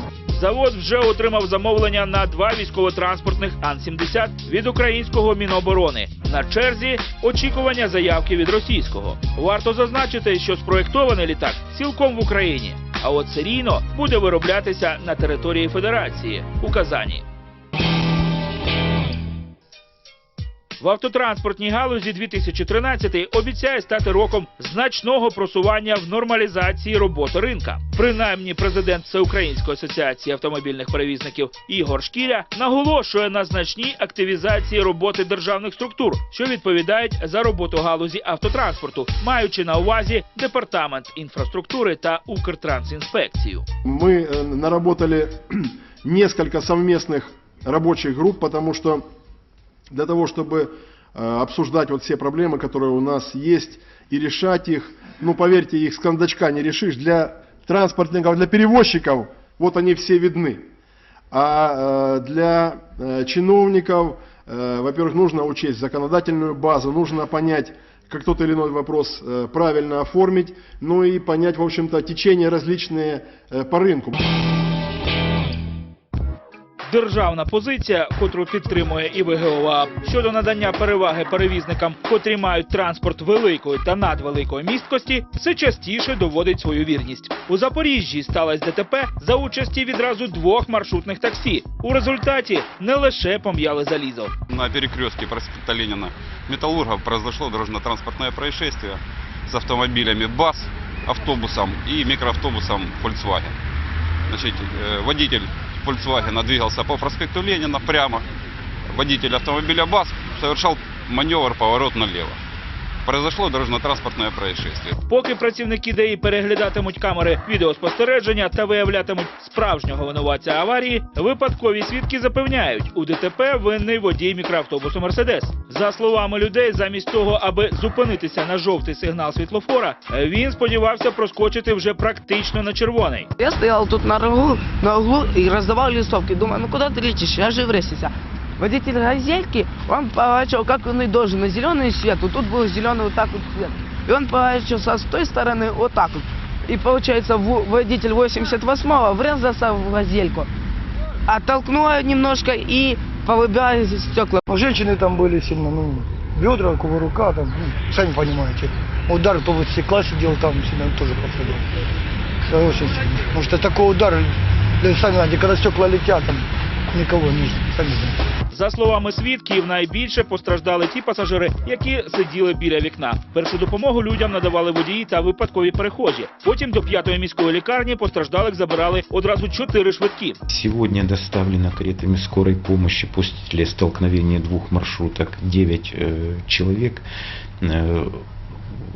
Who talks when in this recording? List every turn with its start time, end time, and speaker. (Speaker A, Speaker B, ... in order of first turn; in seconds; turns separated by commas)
Speaker A: 0.3-17.2, Speaker A: 20.8-43.7, Speaker B: 43.9-49.0, Speaker B: 49.9-60.6, Speaker B: 61.3-74.2, Speaker A: 76.9-94.3, Speaker C: 94.5-103.5, Speaker C: 104.3-108.2, Speaker C: 108.9-112.4, Speaker C: 113.0-115.0, Speaker A: 115.1-133.3, Speaker D: 133.4-150.5, Speaker D: 151.3-154.4, Speaker E: 154.4-161.6, Speaker E: 162.5-168.2, Speaker A: 168.5-180.4, Speaker F: 180.5-187.0, Speaker F: 187.6-188.2